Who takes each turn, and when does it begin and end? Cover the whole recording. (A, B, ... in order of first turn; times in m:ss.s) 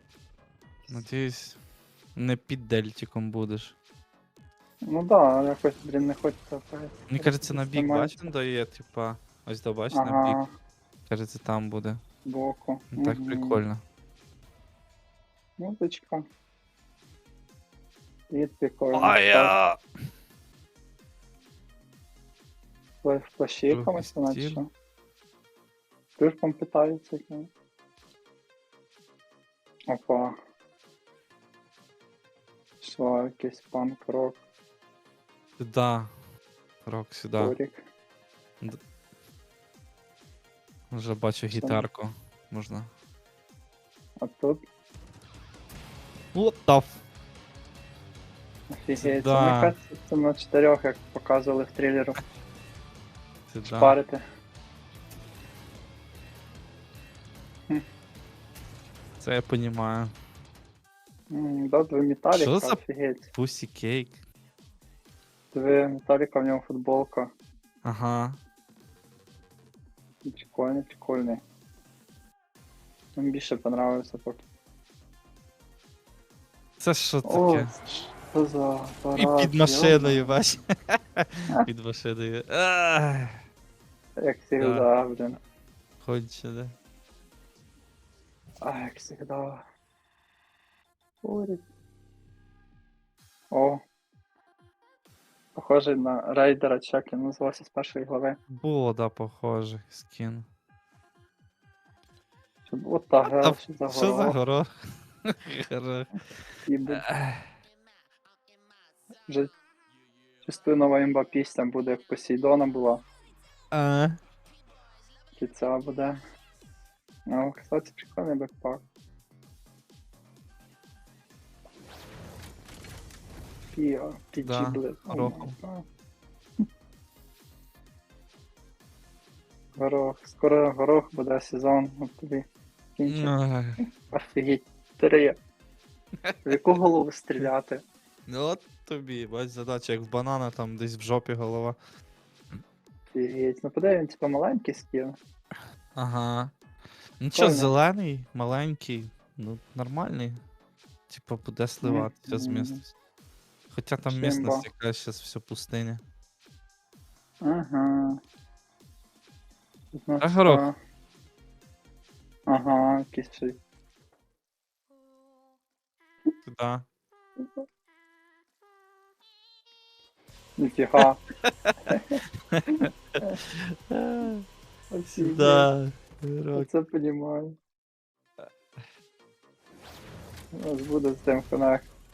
0:00.9-0:01.6 A
0:02.2-0:03.8 A
0:04.8-0:08.3 B
0:07.1-0:10.4 A
0:09.9-0:10.5 B
0:11.1-0:12.0 A
0:12.2-0:13.6 B
0:12.9-0:13.8 A
0:15.6-0:16.3 B
0:18.3-0:19.5 B
0:18.9-0:19.8 A
0:23.0-0:24.7 B
0:23.7-0:24.6 A
0:26.2-0:27.5 B
0:29.9-0:30.3 B
0:32.8-0:34.4 B
0:35.6-0:36.1 A
0:36.8-0:37.6 A
0:37.4-0:37.8 B
0:40.9-0:42.9 A
0:41.6-0:41.8 B
0:44.2-0:44.6 B
0:46.3-0:47.0 A
0:48.7-0:52.2 B
0:49.0-0:49.8 A
0:53.5-0:54.0 A
0:53.7-0:54.2 B
0:59.2-1:00.1 A
1:01.3-1:03.3 B
1:02.3-1:02.8 A
1:03.3-1:04.2 A
1:05.5-1:07.3 B
1:07.8-1:08.4 A
1:10.2-1:11.4 B
1:13.2-1:14.4 B
1:16.8-1:18.1 A
1:17.2-1:17.8 B
1:18.3-1:20.4 B
1:19.2-1:23.4 A
1:24.2-1:25.4 B
1:24.6-1:24.9 A
1:26.0-1:26.7 A
1:28.6-1:29.6 B
1:31.2-1:31.6 B
1:33.5-1:33.8 B
1:35.5-1:38.4 B
1:38.5-1:40.5 A
1:42.7-1:44.4 B
1:43.3-1:44.7 A
1:45.3-1:46.2 A
1:46.7-1:47.0 B
1:46.9-1:47.5 A
1:49.3-1:49.5 B
1:50.4-1:53.0 B
1:53.7-1:54.2 A
1:55.4-1:56.2 B
1:57.3-1:58.8 B
2:03.7-2:05.8 B
2:04.4-2:05.6 A
2:09.8-2:12.4 B
2:13.0-2:13.3 B
2:13.1-2:13.8 A
2:14.1-2:15.4 B
2:16.2-2:16.6 A
2:16.4-2:17.8 B
2:18.3-2:21.8 A
2:23.1-2:25.2 B
2:26.0-2:26.5 A
2:27.2-2:30.4 A
2:27.3-2:27.7 B
2:31.1-2:32.9 A
2:31.8-2:32.8 B
2:33.7-2:36.0 A
2:34.0-2:34.7 B
2:37.4-2:38.2 B
2:39.9-2:40.8 B
2:40.2-2:40.7 A
2:42.5-2:43.6 B
2:46.5-2:46.8 A
2:50.6-2:51.2 B
2:51.7-2:51.9 A
2:51.9-2:52.2 B
2:52.5-2:52.8 A
2:53.5-2:54.4 A
2:54.9-2:55.7 B
2:55.2-2:56.7 A
2:56.5-2:57.5 B
3:00.5-3:01.9 B